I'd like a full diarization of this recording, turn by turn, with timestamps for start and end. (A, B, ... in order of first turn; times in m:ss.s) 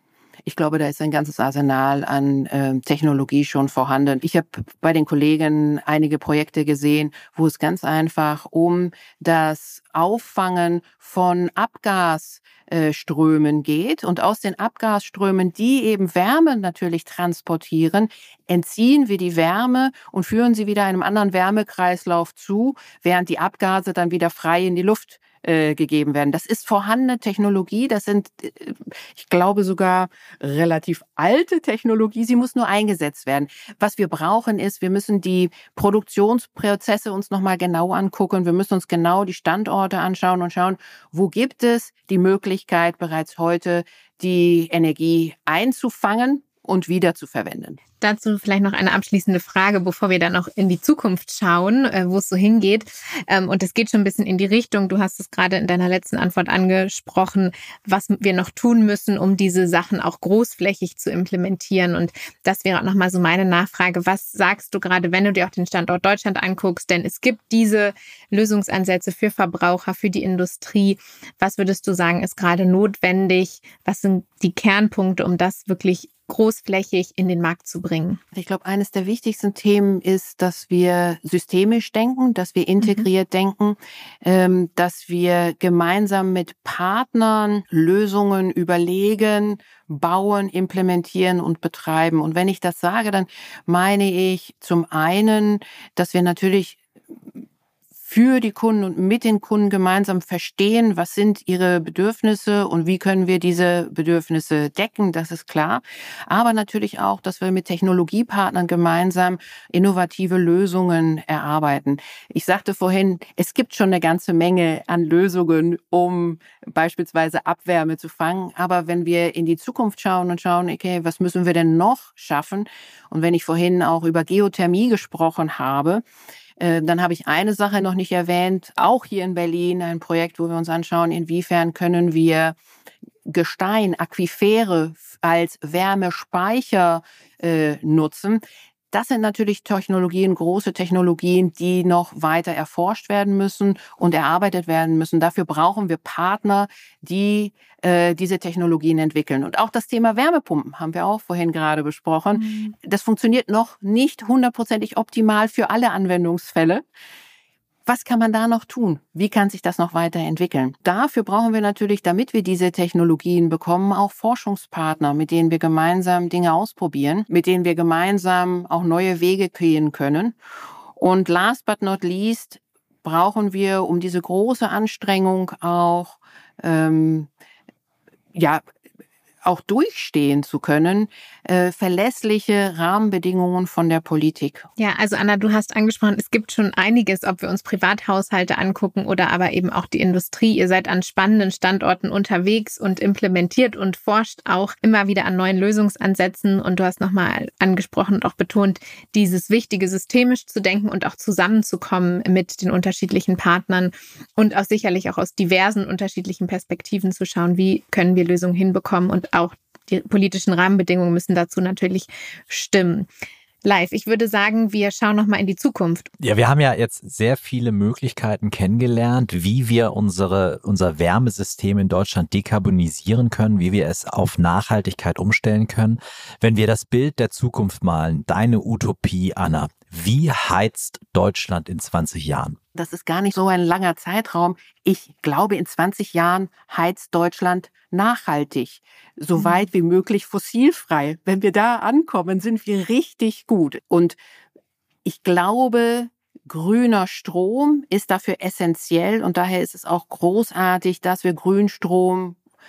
0:00.4-0:47.8 A
0:48.0-1:18.2 B
1:18.3-1:36.8 A
1:22.8-1:23.0 B
1:38.0-2:06.0 A
2:06.6-2:12.5 A
2:13.3-2:36.8 A
2:32.4-2:32.7 B
2:37.8-2:50.3 A
2:51.0-2:57.3 A
2:58.3-2:58.6 A
2:59.4-3:04.6 A
3:04.8-3:33.1 B
3:33.6-3:36.1 B
3:36.2-3:52.6 C
3:52.7-4:04.2 A
3:59.4-3:59.6 B
4:05.0-4:12.4 A